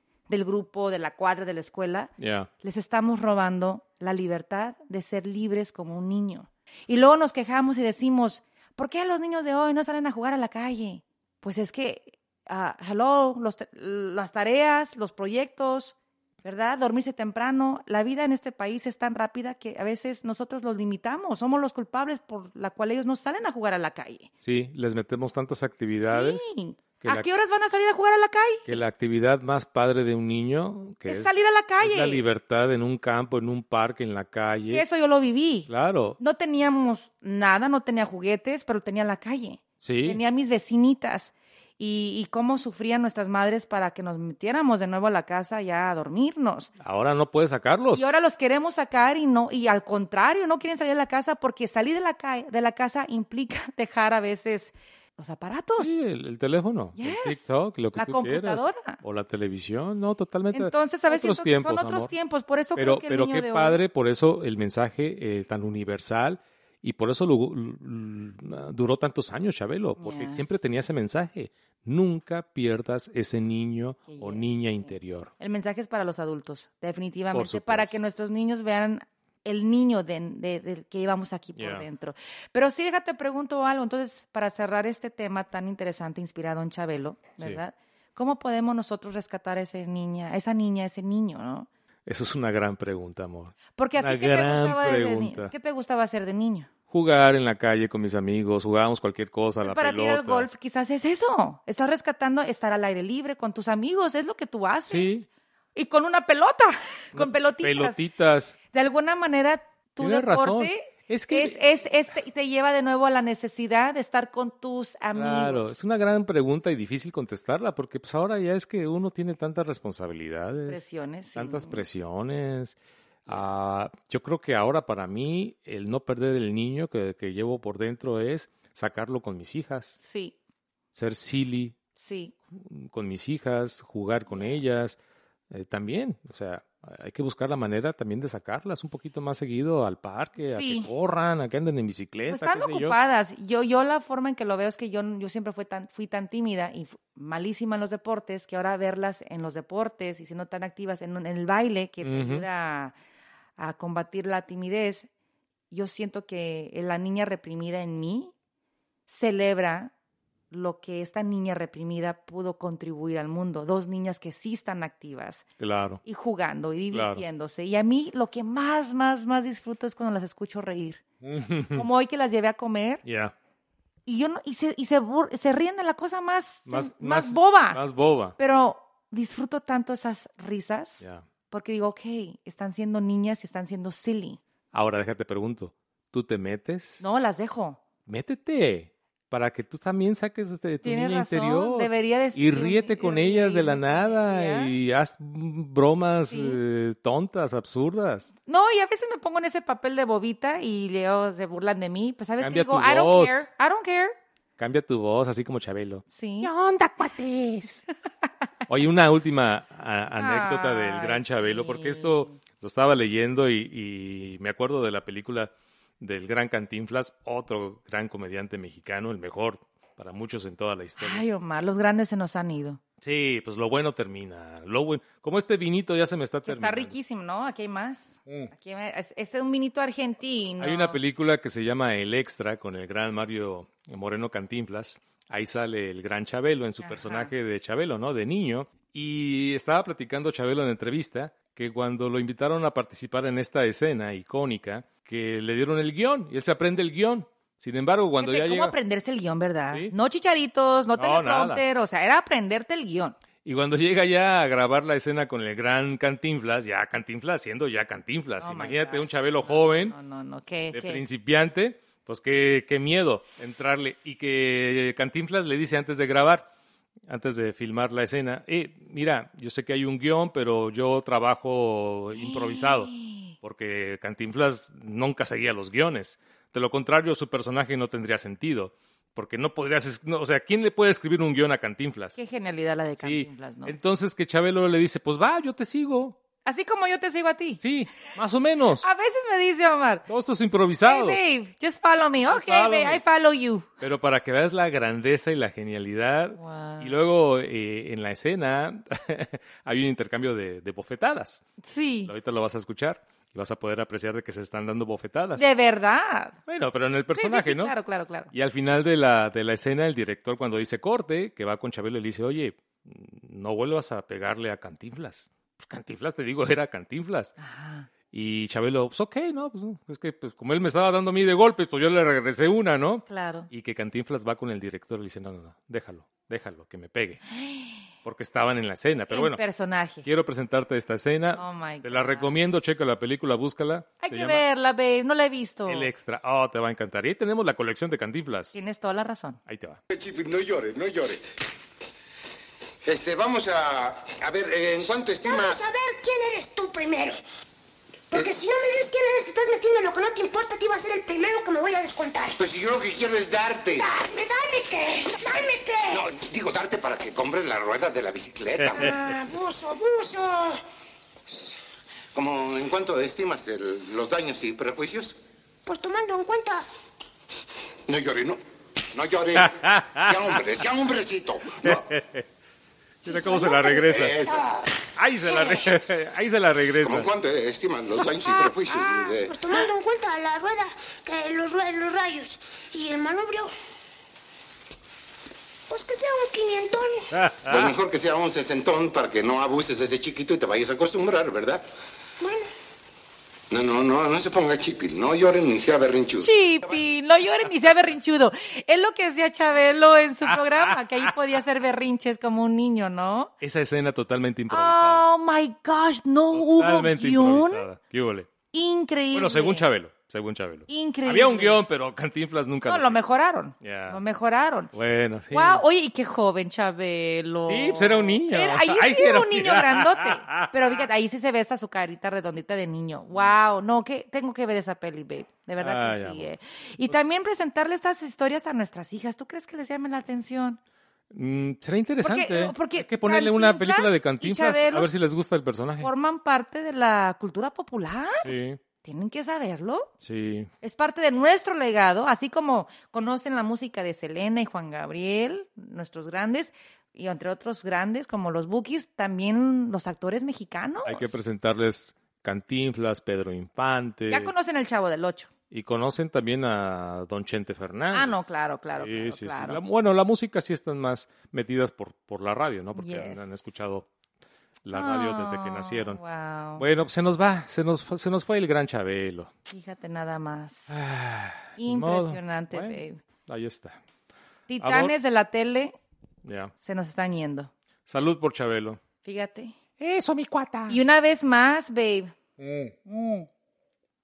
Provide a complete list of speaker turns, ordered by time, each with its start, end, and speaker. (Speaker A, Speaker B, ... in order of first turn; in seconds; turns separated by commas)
Speaker A: 0.3-2.1, Speaker B: 2.2-2.5, Speaker A: 2.6-24.3, Speaker B: 24.4-26.5, Speaker A: 26.0-28.7, Speaker B: 27.0-27.3, Speaker B: 28.7-34.8, Speaker A: 31.1-32.2, Speaker A: 34.7-46.7, Speaker B: 35.7-36.2, Speaker B: 39.8-40.2, Speaker B: 46.8-48.0, Speaker A: 47.9-56.0, Speaker B: 55.8-62.1, Speaker A: 57.0-59.0, Speaker A: 60.5-63.8, Speaker B: 62.8-75.3, Speaker A: 70.0-70.4, Speaker A: 74.1-91.7, Speaker B: 77.3-78.0, Speaker B: 81.6-81.8, Speaker B: 92.1-95.5, Speaker A: 93.8-96.7, Speaker B: 96.9-100.5, Speaker A: 99.6-108.0, Speaker B: 104.9-105.2, Speaker B: 107.1-108.6, Speaker A: 108.7-115.8, Speaker B: 110.0-111.6, Speaker B: 115.1-120.8, Speaker A: 120.7-121.8, Speaker B: 121.3-122.8, Speaker B: 123.3-130.0, Speaker A: 130.0-130.4, Speaker B: 130.9-131.8, Speaker A: 132.0-132.3, Speaker B: 132.5-135.0, Speaker A: 134.3-134.6, Speaker B: 135.5-143.0, Speaker A: 140.4-140.9, Speaker A: 142.3-152.9, Speaker B: 152.0-152.4, Speaker A: 153.6-155.1, Speaker A: 155.7-158.3, Speaker A: 159.1-159.9, Speaker A: 160.5-165.4, Speaker B: 165.6-166.0, Speaker A: 166.1-171.0, Speaker B: 166.9-167.2, Speaker B: 171.2-171.8, Speaker A: 171.7-173.0, Speaker B: 173.1-173.3, Speaker A: 174.1-177.8, Speaker B: 176.7-178.4, Speaker A: 178.4-184.4, Speaker B: 184.7-187.0, Speaker A: 187.0-187.8, Speaker B: 188.1-198.3, Speaker A: 190.8-194.7, Speaker A: 196.3-196.6, Speaker A: 198.5-204.1, Speaker B: 202.4-203.5, Speaker B: 204.6-207.8, Speaker A: 206.1-206.5, Speaker B: 208.7-221.2, Speaker A: 210.2-212.4, Speaker A: 221.0-222.8, Speaker B: 223.0-226.9, Speaker A: 226.5-231.0, Speaker B: 230.6-248.7, Speaker A: 236.8-237.3, Speaker A: 248.2-253.2, Speaker B: 250.9-251.6, Speaker B: 253.4-260.0, Speaker A: 258.4-261.0, Speaker B: 260.7-266.5, Speaker B: 267.1-282.2, Speaker A: 272.2-273.3, Speaker A: 282.2-283.7, Speaker B: 283.0-286.2, Speaker A: 286.5-287.6, Speaker B: 287.6-288.9, Speaker A: 288.8-290.1, Speaker B: 290.1-291.2, Speaker A: 290.9-293.7, Speaker B: 292.3-293.0, Speaker B: 293.8-305.5, Speaker A: 296.4-296.9, Speaker A: 301.6-302.1, Speaker A: 305.4-306.4, Speaker B: 306.5-307.8, Speaker A: 307.1-308.3, Speaker B: 308.3-317.3, Speaker A: 317.4-317.9, Speaker B: 318.1-327.2, Speaker A: 323.1-323.5, Speaker A: 327.3-327.9, Speaker B: 328.0-329.4, Speaker A: 329.1-330.1, Speaker B: 330.0-334.4, Speaker A: 331.4-332.3, Speaker A: 334.0-335.9, Speaker B: 335.7-338.5, Speaker A: 338.5-339.4, Speaker B: 339.5-339.8, Speaker C: 339.9-341.2, Speaker C: 342.9-345.6, Speaker D: 345.2-347.2, Speaker D: 348.1-352.4, Speaker C: 352.4-353.9, Speaker D: 353.7-356.0, Speaker C: 355.9-359.0, Speaker D: 358.7-360.6, Speaker C: 362.1-365.1, Speaker D: 365.7-366.7, Speaker C: 367.9-368.4, Speaker C: 368.9-371.9, Speaker B: 369.4-370.2, Speaker B: 371.6-372.2, Speaker B: 373.1-374.1, Speaker D: 373.1-374.5, Speaker C: 373.9-374.5, Speaker B: 375.0-377.1, Speaker D: 375.3-375.7, Speaker C: 376.8-379.4, Speaker D: 378.7-383.5, Speaker D: 385.7-387.1, Speaker B: 387.1-387.7, Speaker C: 387.4-391.6, Speaker D: 392.2-392.5, Speaker C: 393.5-396.3, Speaker A: 396.2-403.3, Speaker B: 400.3-401.1, Speaker B: 403.4-405.1, Speaker A: 404.5-407.6, Speaker B: 406.3-408.3, Speaker A: 408.5-409.6, Speaker B: 409.1-413.0, Speaker A: 410.7-411.6, Speaker A: 412.6-414.7, Speaker B: 413.6-414.0, Speaker B: 414.7-415.6, Speaker A: 415.3-430.6, Speaker B: 417.4-420.5, Speaker B: 425.6-426.3, Speaker B: 431.1-435.9, Speaker A: 432.0-434.9, Speaker A: 435.8-438.3, Speaker B: 438.2-438.6, Speaker A: 438.8-439.9, Speaker B: 440.0-440.5, Speaker A: 440.6-451.2, Speaker B: 450.9-454.3, Speaker A: 454.1-455.3, Speaker B: 455.5-463.9, Speaker A: 457.9-459.6, Speaker A: 462.8-463.5, Speaker B: 464.6-466.0, Speaker A: 464.7-466.6, Speaker B: 466.6-469.3, Speaker A: 469.5-470.8, Speaker B: 470.7-473.8, Speaker A: 471.6-473.0, Speaker A: 474.5-475.8, Speaker B: 474.6-474.9, Speaker B: 476.2-476.5, Speaker A: 476.6-477.5, Speaker B: 477.9-478.8, Speaker A: 479.0-479.6, Speaker B: 479.8-480.8, Speaker A: 480.7-482.1, Speaker B: 482.4-483.2